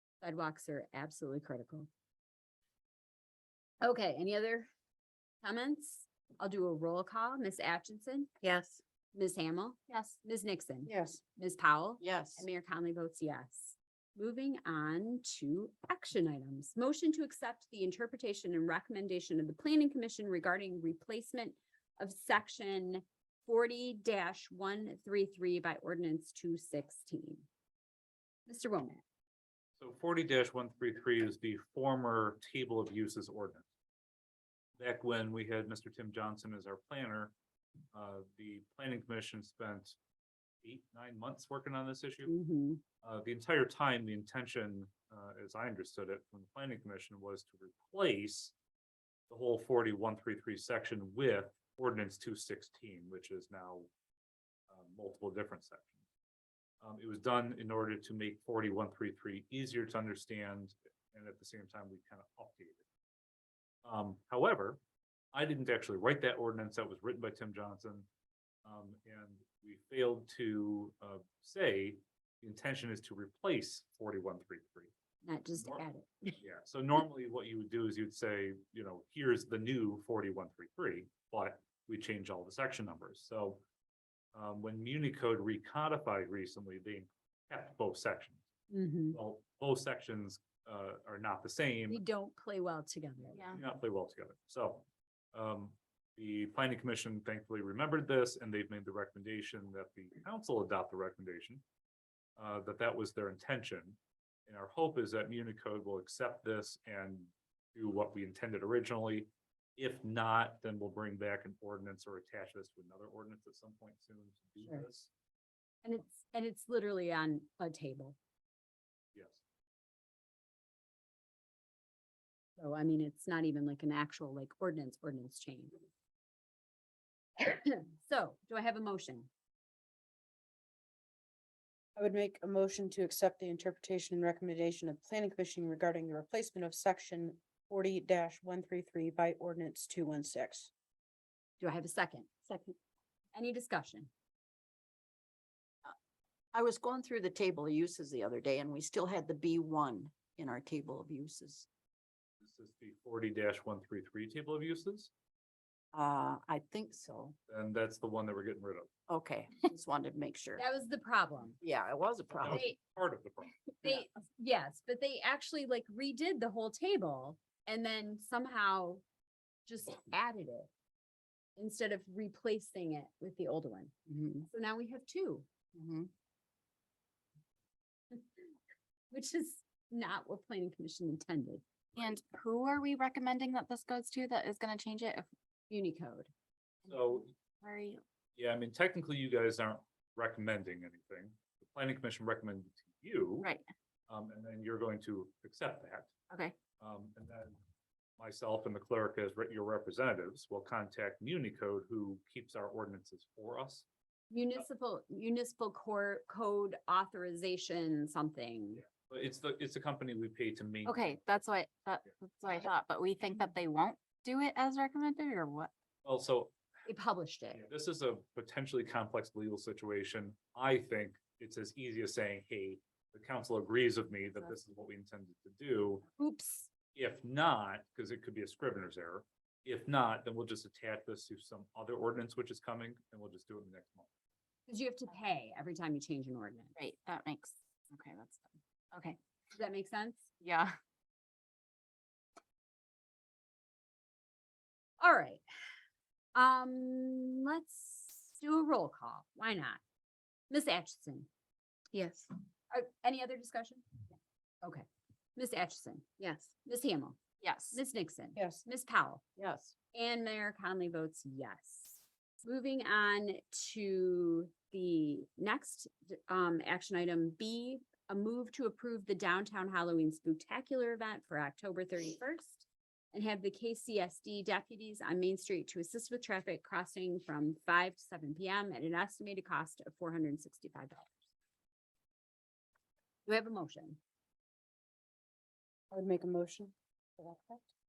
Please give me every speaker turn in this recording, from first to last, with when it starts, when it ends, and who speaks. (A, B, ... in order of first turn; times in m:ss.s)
0:00.2-0:01.9 A
0:03.8-0:04.7 A
0:05.4-0:08.3 A
0:08.4-0:08.8 B
0:09.1-0:27.4 A
0:09.9-0:10.1 B
0:10.8-0:11.2 C
0:12.0-0:12.5 D
0:28.5-0:29.0 A
0:29.8-0:33.6 E
0:34.8-0:37.3 E
0:37.9-0:40.0 E
0:40.6-0:42.3 E
0:42.3-0:42.8 A
0:43.0-0:48.5 E
0:49.3-0:53.9 E
0:54.7-0:56.0 E
0:56.8-1:02.8 E
1:03.8-1:04.8 E
1:05.3-1:08.1 E
1:08.6-1:14.9 E
1:15.2-1:16.4 A
1:15.6-1:15.8 E
1:16.4-1:23.6 E
1:24.3-1:28.4 E
1:28.7-1:29.2 A
1:29.1-1:32.0 E
1:31.9-1:33.5 A
1:33.3-1:33.6 B
1:33.5-1:41.6 E
1:42.4-1:55.1 E
1:55.8-1:58.2 A
1:59.1-1:59.4 E
2:02.6-2:05.8 A
2:07.4-2:09.3 A
2:12.0-2:20.7 C
2:21.6-2:22.8 A
2:23.3-2:24.1 A
2:26.5-2:31.7 D
2:32.4-2:35.1 E
2:35.9-2:37.3 D
2:37.5-2:38.9 E
2:39.1-2:40.6 D
2:40.6-2:41.6 A
2:41.6-2:42.6 D
2:42.4-2:43.5 E
2:42.5-2:42.8 A
2:43.8-2:49.0 A
2:49.6-2:50.7 A
2:51.6-2:53.9 A
2:54.1-2:54.4 D
2:54.5-2:55.4 A
2:55.8-2:56.1 D
2:59.1-3:01.6 A
3:02.0-3:05.3 B
3:05.7-3:06.3 A
3:06.8-3:07.3 E
3:07.6-3:08.0 B
3:08.4-3:13.5 E
3:14.1-3:16.1 E
3:16.3-3:16.5 B
3:16.8-3:17.6 E
3:18.2-3:23.8 E
3:24.3-3:28.8 A
3:28.9-3:31.2 E
3:30.8-3:35.7 B
3:36.0-3:36.5 E
3:36.8-3:37.6 A
3:37.5-3:46.0 E
3:46.2-3:46.7 A
3:46.9-3:54.1 E
3:54.7-3:56.7 A
3:56.8-3:59.2 B
3:59.5-4:00.2 A
4:00.4-4:00.8 B
4:05.0-4:05.4 A
4:06.3-4:09.8 A
4:10.5-4:11.3 A
4:11.9-4:12.3 B
4:12.7-4:13.9 A
4:14.6-4:17.2 A
4:16.2-4:16.5 B
4:17.4-4:17.8 B
4:17.7-4:19.2 A
4:18.4-4:18.6 C
4:19.9-4:41.2 A
4:43.2-4:44.0 A
4:45.9-4:47.6 C